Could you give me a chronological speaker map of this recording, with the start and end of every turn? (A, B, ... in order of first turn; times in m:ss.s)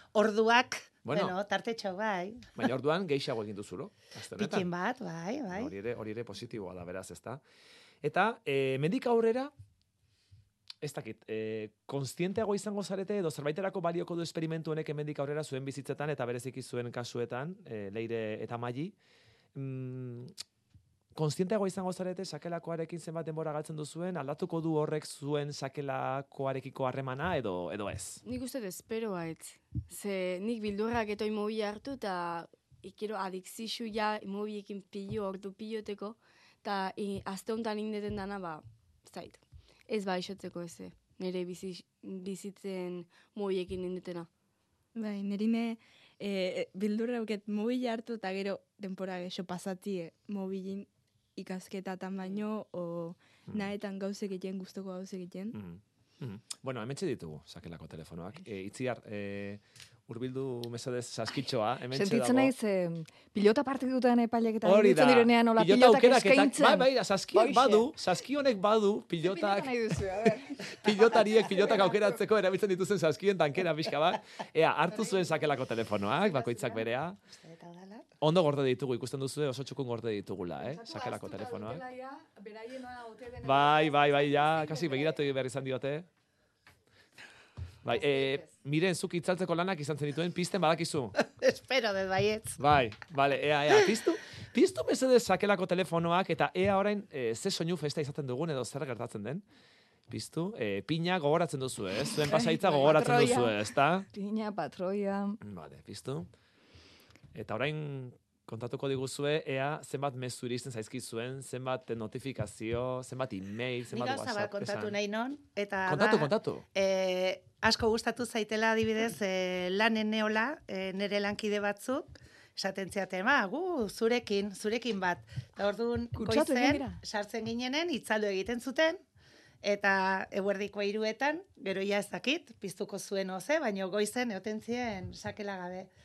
0:00.1-0:02.5 A
0:01.0-0:01.4 B
0:02.6-0:04.7 B
0:04.4-0:05.7 A
0:05.5-0:07.4 B
0:08.0-0:09.5 B
0:10.8-0:18.9 B
0:19.5-0:20.3 B
0:21.2-0:28.2 B
0:28.2-0:44.3 C
0:44.9-0:55.6 D
0:55.5-1:02.5 B
1:01.9-1:07.9 E
1:04.6-1:09.8 B
1:09.2-1:10.7 E
1:10.8-1:17.2 B
1:14.9-1:15.3 A
1:17.3-1:18.1 A
1:18.2-1:21.8 B
1:20.6-1:25.2 E
1:23.4-1:26.1 B
1:27.8-1:31.1 B
1:27.9-1:28.5 E
1:31.2-1:32.6 A
1:32.6-1:39.4 B
1:40.1-1:44.1 B
1:42.3-1:45.4 E
1:45.4-1:46.3 B
1:47.3-1:55.0 B
1:53.9-2:09.0 A
1:55.9-1:56.6 B
2:06.2-2:07.0 E
2:09.6-2:15.9 A